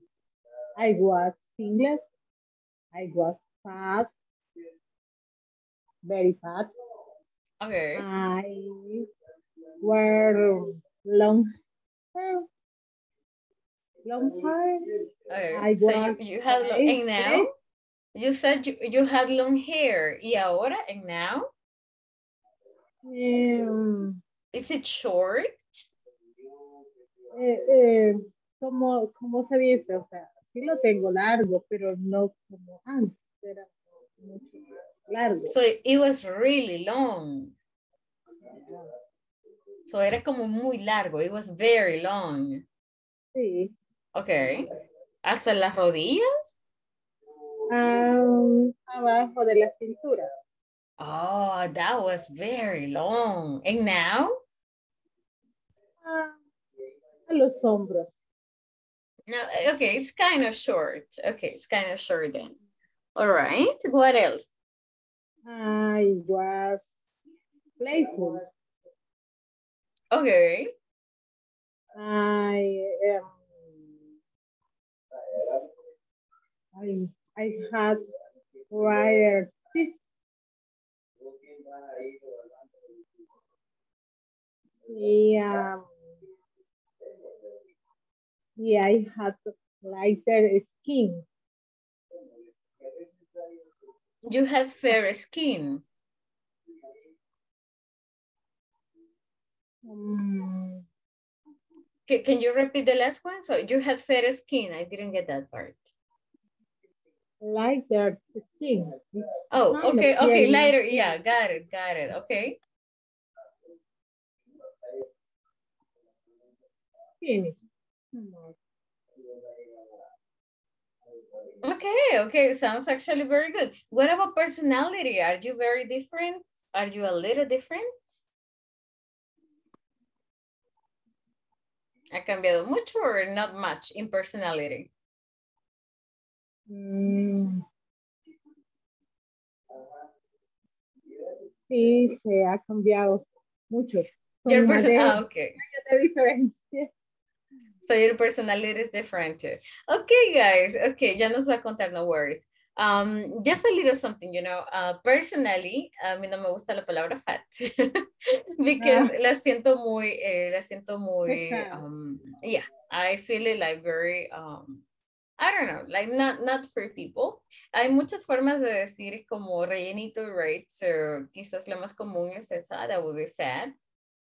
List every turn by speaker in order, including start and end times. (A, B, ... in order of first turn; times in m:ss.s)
0:00.8-0:02.0 A
0:02.9-0:04.1 A
0:06.0-0:06.7 A
0:07.6-0:08.0 B
0:08.0-0:09.1 A
0:09.8-0:11.4 A
0:12.1-0:12.5 A
0:14.0-0:14.8 A
0:15.3-0:17.5 B
0:15.5-0:17.4 A
0:18.1-0:21.5 B
0:23.1-0:24.2 A
0:24.5-0:25.8 B
0:27.3-0:35.5 A
0:35.5-0:37.5 B
0:39.9-0:42.6 B
0:43.3-0:43.7 A
0:44.2-0:44.6 B
0:45.2-0:46.5 B
0:47.7-0:50.2 A
0:51.0-0:54.3 B
0:56.0-0:56.4 A
0:57.3-0:58.0 A
0:59.3-1:02.6 B
1:03.2-1:04.5 B
1:05.4-1:06.9 A
1:07.8-1:08.5 A
1:10.1-1:10.7 B
1:12.0-1:13.3 A
1:16.8-1:18.0 A
1:18.7-1:19.9 A
1:24.9-1:25.9 A
1:28.6-1:31.2 A
1:34.2-1:35.8 B
1:39.8-1:40.8 A
1:42.1-1:45.9 B
1:47.4-1:49.2 A
1:49.5-1:52.6 B
1:49.7-1:51.1 A
1:57.2-1:57.6 A
1:58.1-1:58.5 A
2:01.6-2:08.0 B
2:12.1-2:14.9 B
2:16.7-2:17.6 A
2:21.7-2:26.9 A
2:24.5-2:25.6 B
2:27.9-2:44.8 B
2:38.8-2:39.1 A
2:41.3-2:41.8 A
2:45.4-2:53.7 B